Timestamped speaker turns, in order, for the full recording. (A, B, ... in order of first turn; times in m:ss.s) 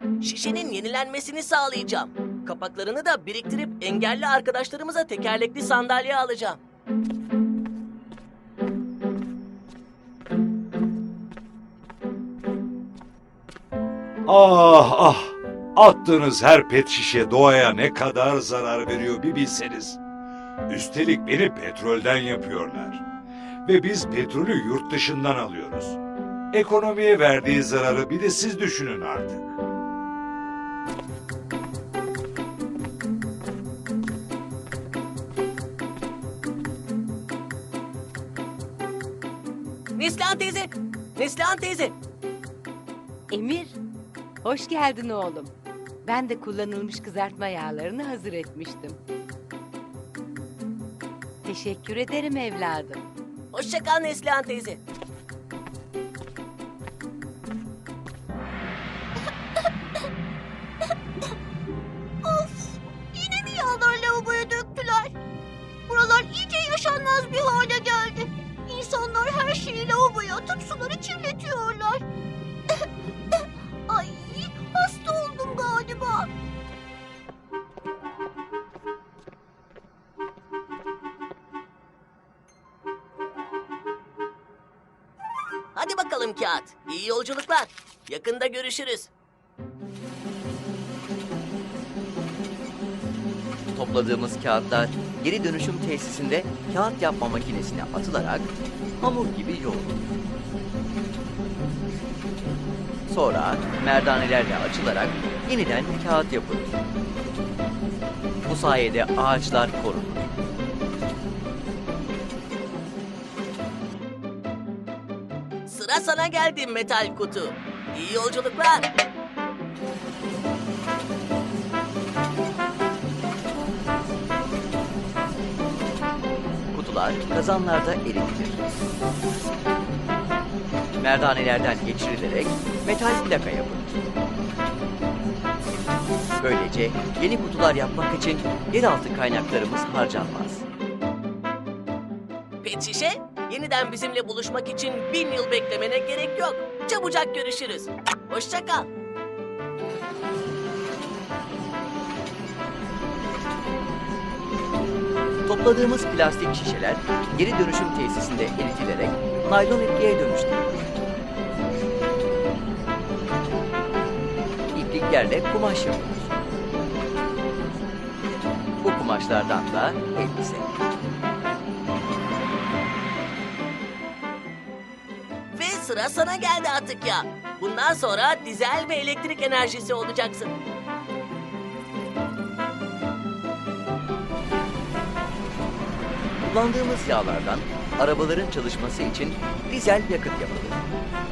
0:00.2-0:06.6 A
0:14.3-0:20.0 B
0:20.7-0:23.0 B
0:23.6-0:26.0 B
0:26.5-0:29.6 B
0:40.0-0:41.9 A
0:43.3-0:43.8 C
0:44.4-0:49.0 C
0:51.4-0:53.0 C
0:53.5-0:54.8 A
1:02.2-1:05.2 D
1:05.9-1:12.0 D
1:12.7-1:16.3 D
1:25.8-1:29.1 A
1:33.7-1:40.0 E
1:43.1-1:46.8 E
1:48.4-1:50.3 E
1:55.6-1:58.9 A
2:06.7-2:08.6 E
2:11.0-2:14.0 E
2:16.4-2:20.6 E
2:22.6-2:28.9 A
2:35.4-2:40.8 E
2:44.7-2:46.4 E
2:48.8-2:50.7 E
2:55.5-3:00.5 A
3:06.4-3:10.8 E